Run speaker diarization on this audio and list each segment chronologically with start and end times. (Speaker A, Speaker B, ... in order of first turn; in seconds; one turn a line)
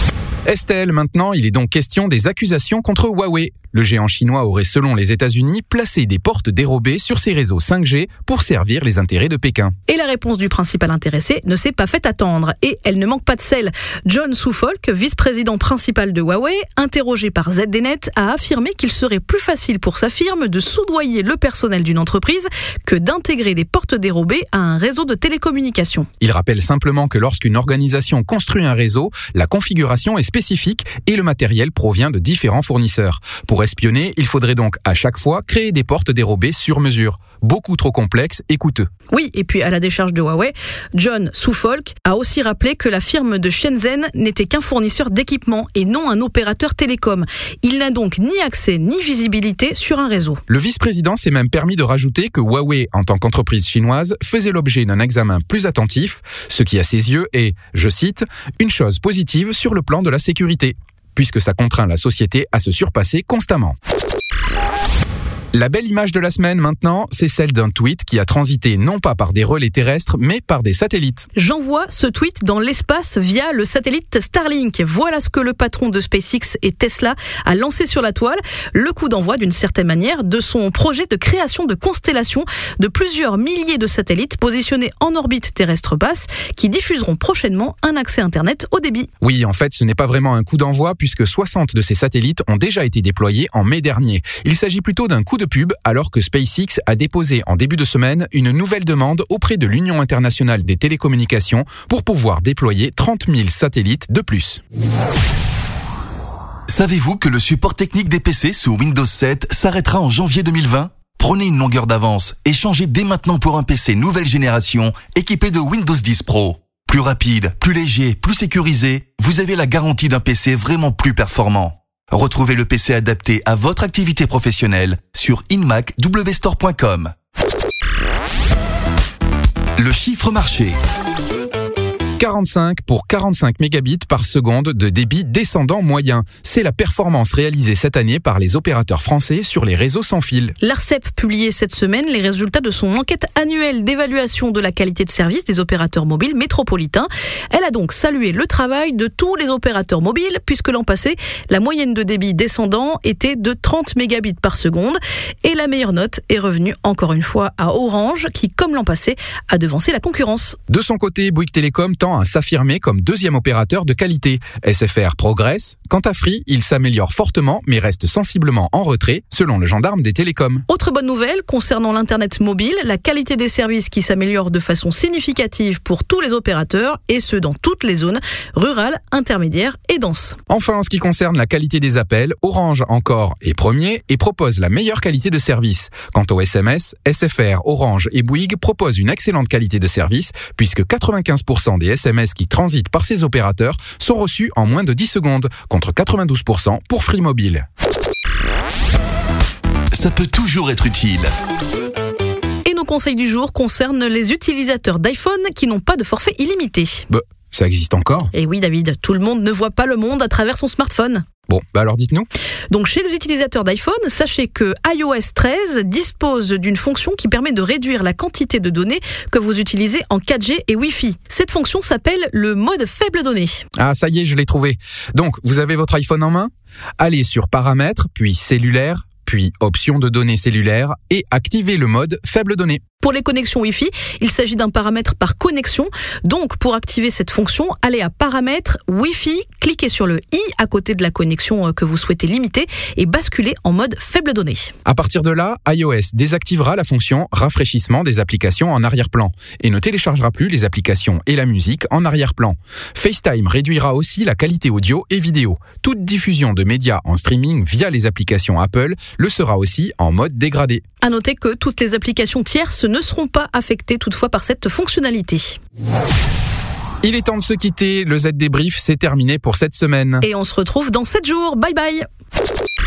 Speaker A: 0.5-9.7
Speaker B: 9.9-26.1
Speaker A: 26.2-38.9
Speaker B: 39.1-50.4
Speaker A: 50.5-63.8
Speaker A: 65.5-71.3
Speaker B: 71.3-89.1
Speaker A: 89.2-104.6
Speaker C: 106.7-127.1
Speaker C: 129.8-130.8
Speaker A: 132.2-140.5
Speaker B: 140.6-160.6
Speaker A: 160.7-170.6
Speaker B: 170.7-180.4
Speaker A: 180.5-197.6
Speaker C: 199.9-201.3
Speaker B: 202.6-207.1
Speaker A: 207.1-208.3
Speaker B: 208.3-211.2
Speaker A: 211.5-212.3
Speaker B: 212.7-223.6
Speaker A: 223.8-232.8
Speaker B: 233.0-244.7
Speaker A: 244.8-260.8
Speaker B: 261.0-265.6
Speaker A: 267.0-270.2
Speaker B: 270.2-272.0